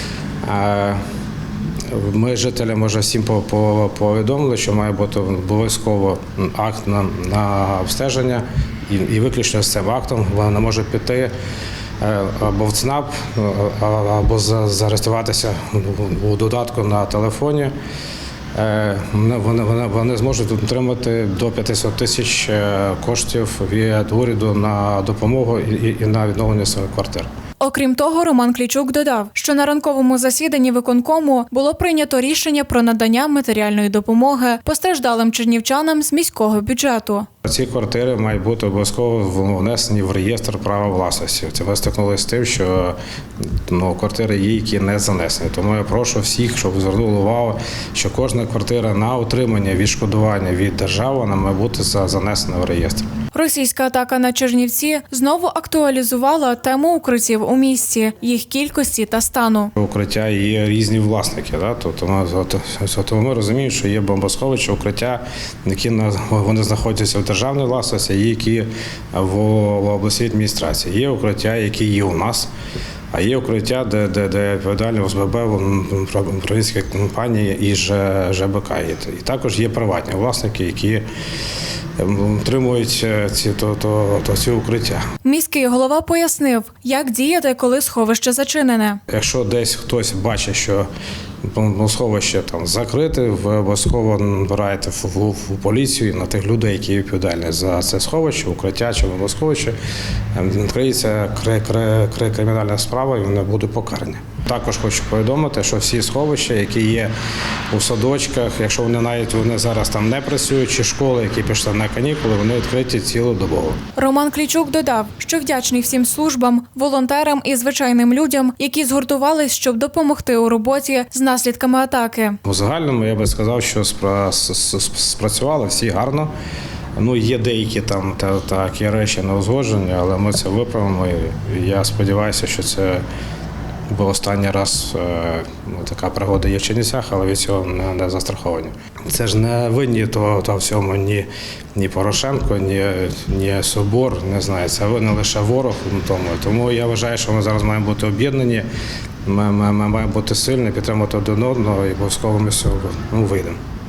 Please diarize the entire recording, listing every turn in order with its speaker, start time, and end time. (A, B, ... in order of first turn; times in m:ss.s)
0:00.4-0:01.0 A
0:01.8-0:11.3 A
0:12.0-0:17.7 A
0:18.5-0:27.3 A
0:27.6-0:37.3 B
0:37.4-0:53.1 A
0:53.3-0:59.7 B
0:59.8-1:12.5 A
1:13.1-1:21.0 A
1:22.0-1:25.0 A
1:25.2-1:29.0 B
1:29.1-1:30.9 A
1:31.4-1:39.8 A
1:40.3-1:47.1 A
1:47.7-1:53.8 A
1:54.0-2:02.4 B
2:02.4-2:06.3 A
2:07.0-2:13.0 A
2:13.9-2:28.6 A
2:29.2-2:33.6 A